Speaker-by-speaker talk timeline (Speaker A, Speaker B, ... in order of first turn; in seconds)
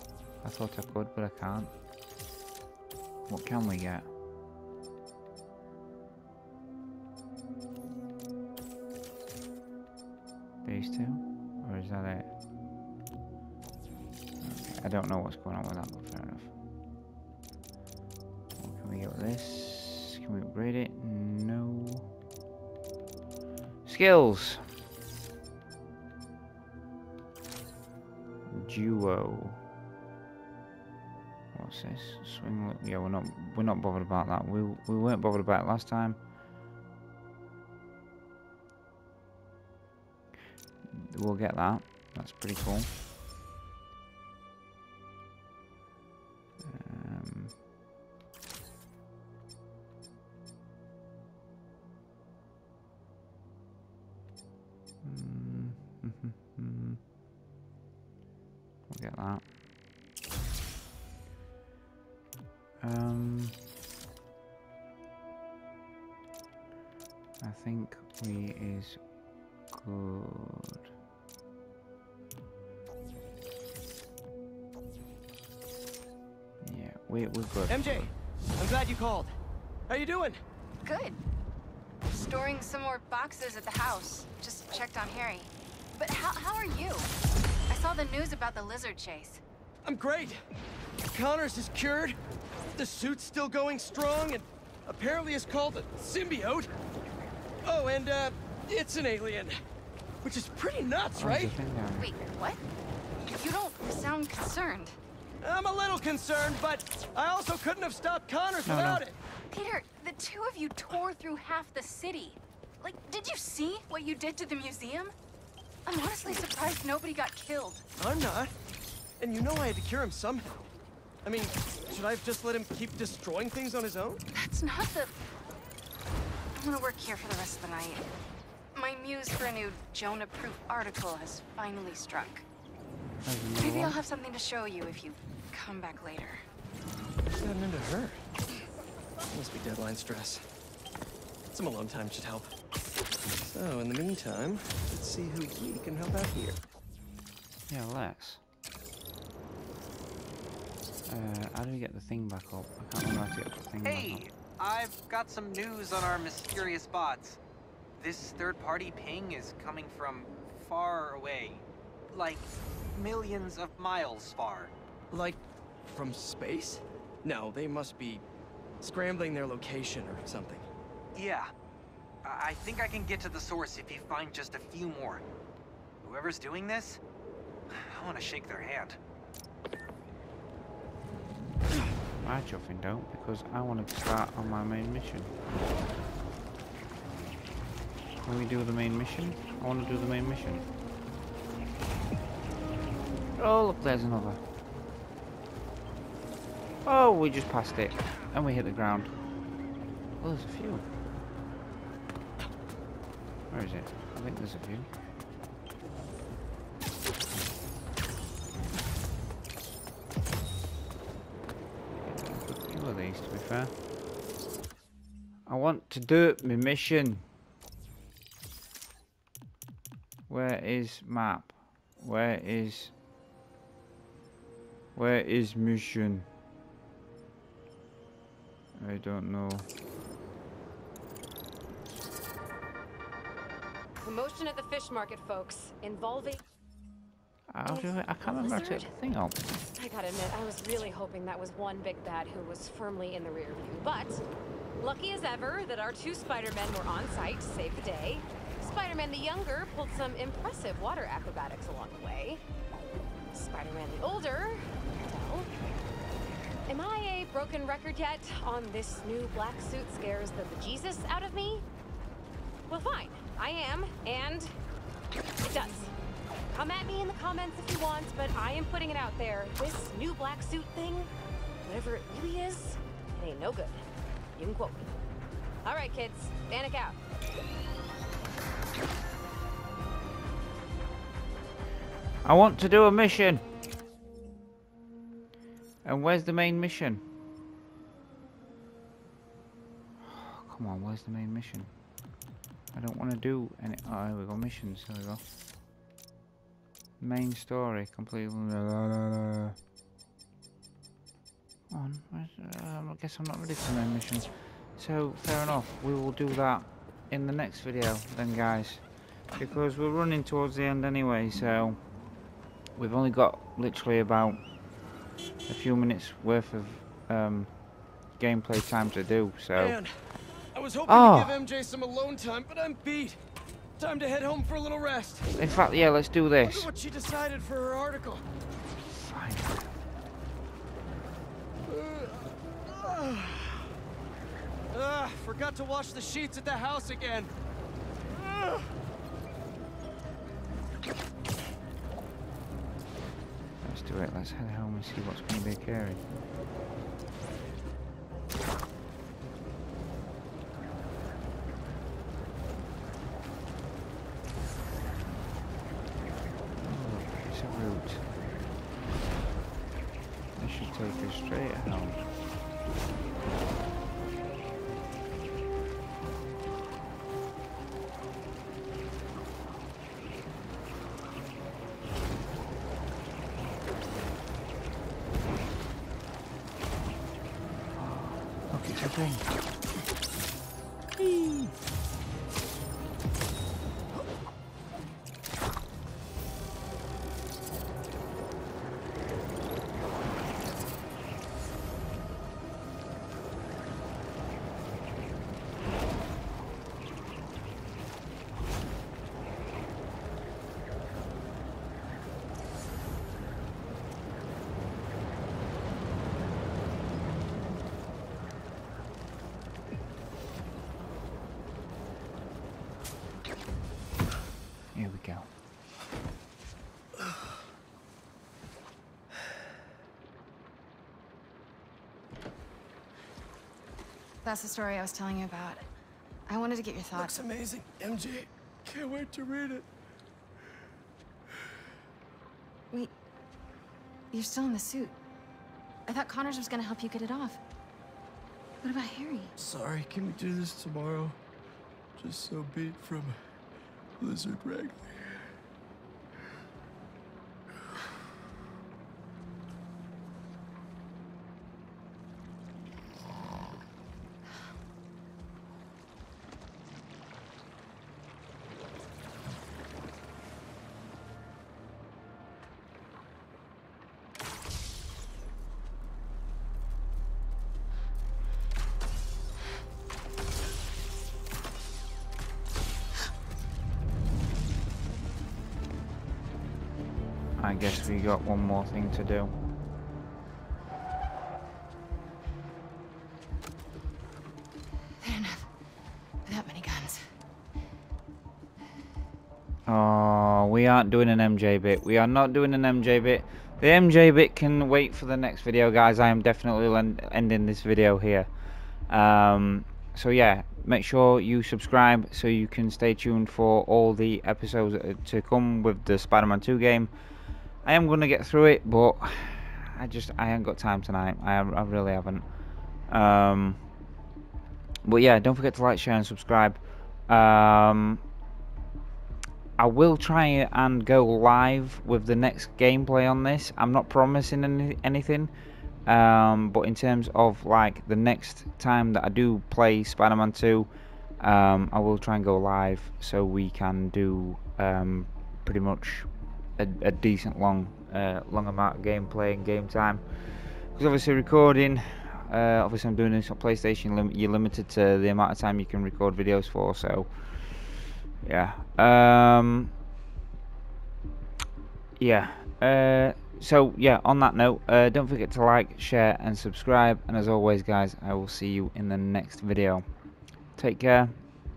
Speaker A: 0.4-1.7, 3.3-4.1, 10.6-12.3, 14.4-16.5, 18.6-22.1, 23.9-24.6, 28.5-29.6, 31.5-36.2, 40.9-42.9, 46.6-47.5, 55.0-57.0, 58.9-59.5, 62.8-63.6, 67.4-69.0, 69.7-70.9, 76.6-78.1, 101.2-102.1, 108.7-109.0, 133.2-134.0, 147.7-148.4, 151.1-154.3, 182.2-185.3, 188.2-190.6, 193.4-194.4, 196.8-199.1, 200.2-200.8, 203.5-204.9, 212.0-213.7, 215.4-217.2, 220.3-222.9, 224.9-226.3, 228.8-229.7, 237.5-239.4, 282.2-283.4, 285.8-287.0, 290.0-291.7, 292.7-295.2, 297.0-299.6, 301.7-308.8, 309.4-311.8, 312.8-314.4, 315.5-317.5, 318.2-319.8, 320.9-321.4, 325.4-326.7, 328.8-329.7, 343.6-346.0, 356.6-358.0, 360.4-362.0, 377.8-379.3, 381.0-381.5, 414.7-415.3, 477.4-479.3, 489.6-498.3, 498.9-506.9, 507.6-512.2, 512.9-513.6, 514.8-518.0, 519.6-525.3, 525.9-530.7, 531.2-549.7, 552.0-559.9, 560.5-561.3
Speaker B: 77.7-79.3, 79.9-80.4, 89.8-90.4, 91.1-92.2, 92.7-96.7, 97.6-99.6, 100.2-101.5, 105.4-109.2, 118.0-118.5, 119.2-120.5, 121.2-124.2, 137.4-138.2, 139.3-140.4, 141.5-142.6, 143.4-146.6, 165.1-168.2, 168.8-170.7, 319.5-319.9, 320.5-323.2, 323.8-325.3, 326.4-328.2, 331.7-333.7, 334.7-337.3, 338.2-338.6, 426.9-429.7, 439.4-441.2, 441.9-443.2, 444.0-445.3
Speaker C: 80.8-81.2, 82.1-87.1, 87.7-89.4, 102.0-102.6, 103.2-105.0, 109.5-115.1, 115.9-117.8, 124.3-125.2, 126.5-128.1, 128.7-132.4, 133.6-136.4, 424.2-425.6, 426.3-427.2, 434.1-434.9, 435.9-437.4, 438.6-439.3, 485.0-485.5, 486.3-487.1
Speaker D: 153.8-157.4, 158.0-164.7, 171.1-171.5, 172.2-175.2, 176.0-177.0, 177.7-179.0
Speaker E: 234.0-236.4, 237.7-238.9, 239.8-244.2, 244.8-252.4, 253.3-255.5, 256.7-261.6, 262.7-264.5, 265.4-265.9, 266.5-271.1, 271.6-273.8, 274.4-274.9, 275.6-276.9